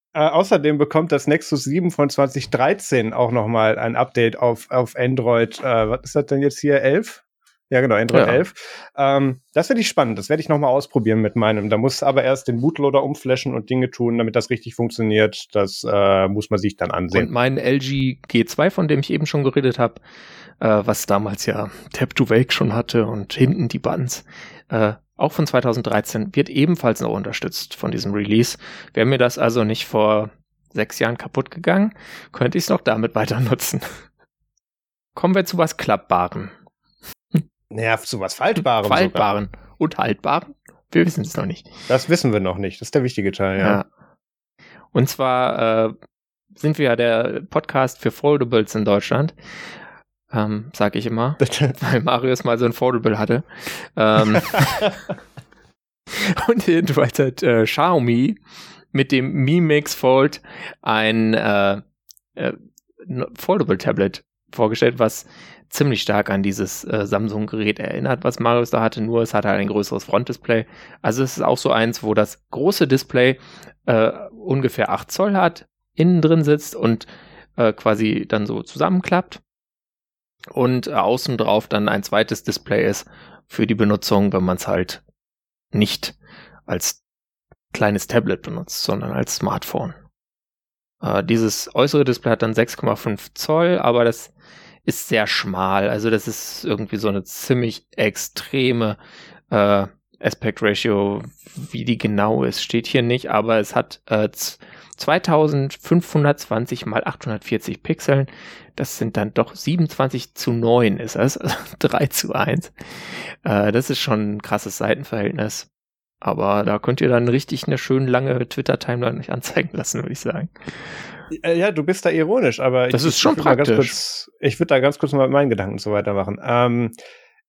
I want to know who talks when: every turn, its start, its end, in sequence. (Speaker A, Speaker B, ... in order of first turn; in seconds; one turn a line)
Speaker A: 0.1-17.3
Speaker B: 8.1-8.4
Speaker B: 17.1-20.0
Speaker B: 20.6-34.0
Speaker B: 35.1-36.5
Speaker A: 37.7-39.2
Speaker B: 38.8-41.7
Speaker A: 41.9-43.8
Speaker B: 43.6-43.9
Speaker B: 44.9-45.9
Speaker B: 46.5-49.3
Speaker B: 50.3-54.9
Speaker A: 51.4-51.7
Speaker B: 56.1-58.4
Speaker B: 58.9-61.8
Speaker B: 62.4-79.4
Speaker B: 80.5-85.0
Speaker B: 85.7-86.2
Speaker B: 86.7-87.0
Speaker B: 87.7-89.9
Speaker B: 91.0-94.3
Speaker B: 94.8-99.0
Speaker B: 99.5-115.7
Speaker B: 116.2-121.0
Speaker A: 121.3-126.9
Speaker B: 122.9-123.9